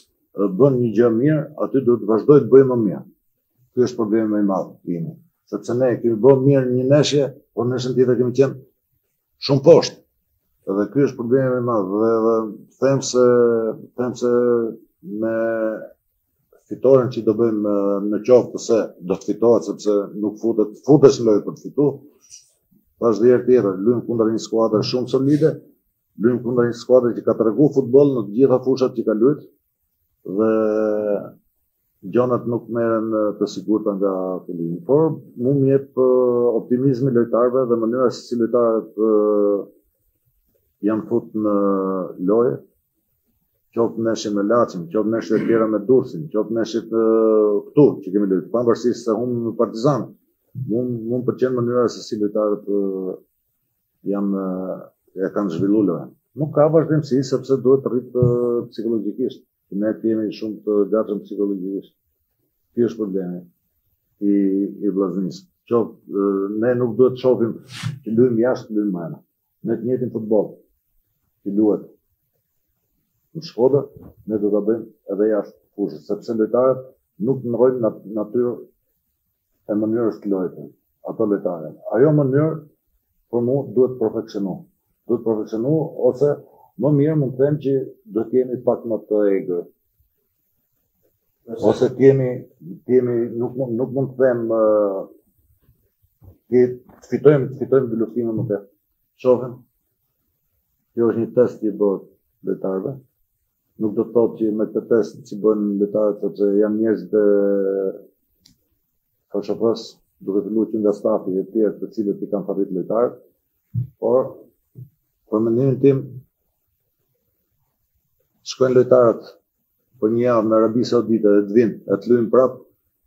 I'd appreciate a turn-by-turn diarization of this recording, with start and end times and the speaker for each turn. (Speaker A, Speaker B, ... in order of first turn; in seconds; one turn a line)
Speaker A: 0.3-3.0
Speaker A: 3.8-8.6
Speaker A: 9.4-10.0
Speaker A: 10.7-15.9
Speaker A: 16.7-22.1
Speaker A: 23.0-25.6
Speaker A: 26.2-29.4
Speaker A: 30.2-31.3
Speaker A: 32.0-39.7
Speaker A: 40.8-42.6
Speaker A: 43.7-50.1
Speaker A: 50.6-53.2
Speaker A: 54.0-62.0
Speaker A: 62.7-63.5
Speaker A: 64.2-70.6
Speaker A: 71.4-71.9
Speaker A: 73.3-78.6
Speaker A: 79.7-82.6
Speaker A: 83.3-89.7
Speaker A: 91.5-95.1
Speaker A: 96.5-98.6
Speaker A: 99.2-99.6
Speaker A: 101.0-103.0
Speaker A: 103.8-108.0
Speaker A: 109.3-113.2
Speaker A: 114.0-114.4
Speaker A: 115.3-116.2
Speaker A: 118.4-119.3
Speaker A: 120.0-122.6